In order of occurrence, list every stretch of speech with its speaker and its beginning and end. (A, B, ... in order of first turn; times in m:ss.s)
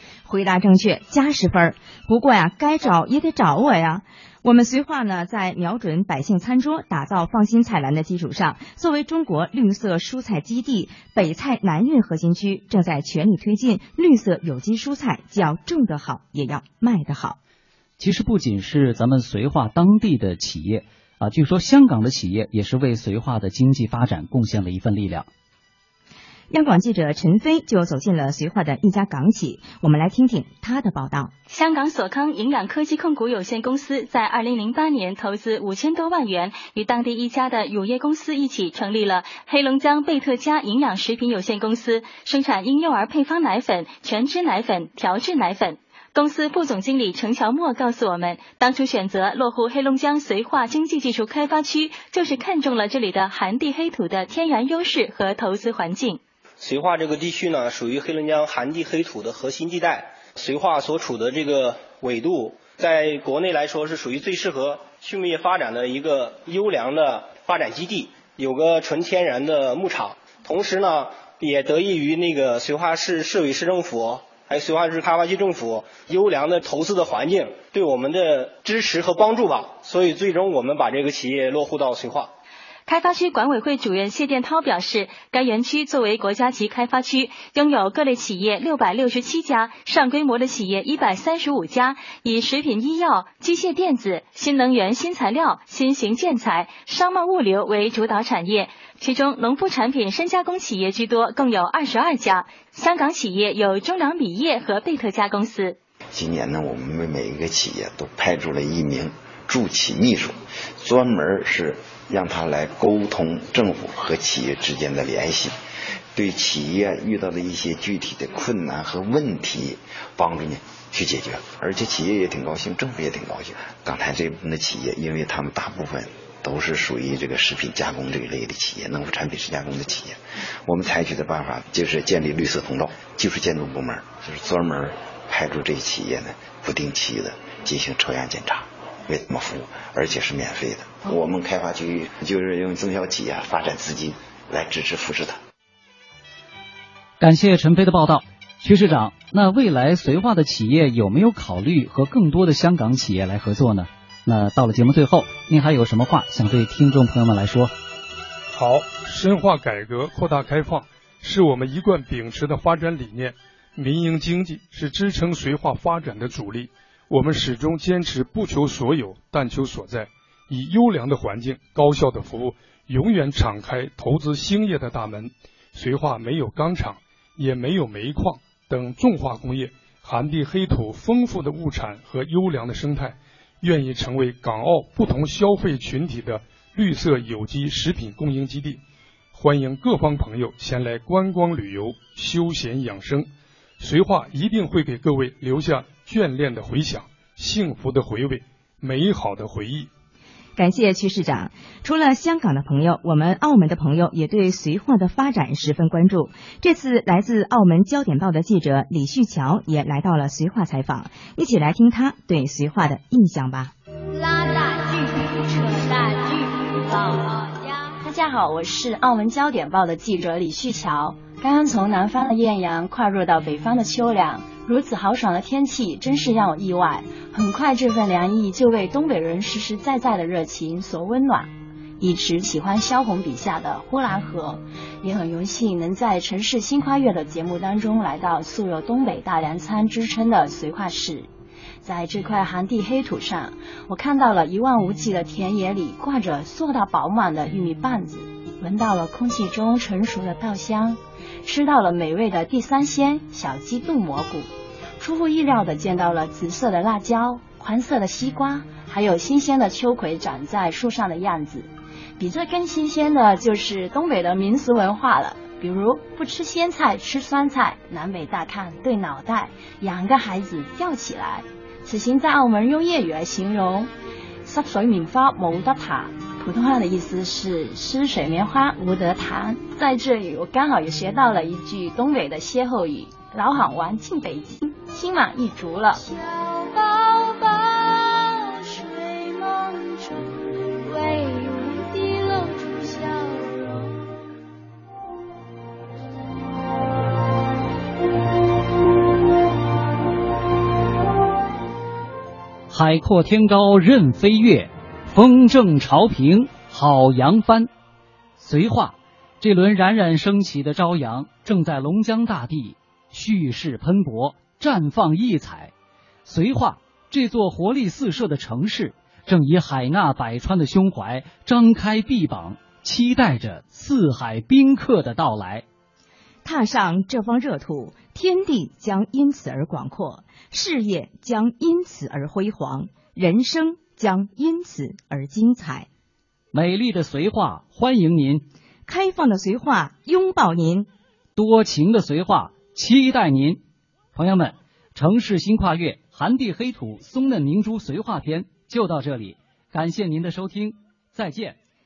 0:00.3-0:17.4 A
0:18.0-0:25.3 B
0:26.5-0:31.3 A
0:31.5-0:56.2 C
0:56.6-1:22.3 D
1:22.9-1:45.8 C
1:46.1-1:55.5 E
1:56.2-2:10.2 E
2:10.7-2:25.4 E
2:27.2-2:37.7 B
2:38.5-3:08.8 F
3:09.3-3:19.9 F
3:20.6-3:33.7 A
3:38.0-4:01.3 G
4:01.8-4:33.9 G
4:34.4-4:46.0 G
5:02.7-5:07.7 B
5:08.4-5:15.7 B
5:16.2-5:25.6 B
5:26.4-5:35.9 A
5:36.5-5:38.5 B
5:38.9-5:40.9 A
5:41.4-5:43.6 B
5:44.2-5:51.6 B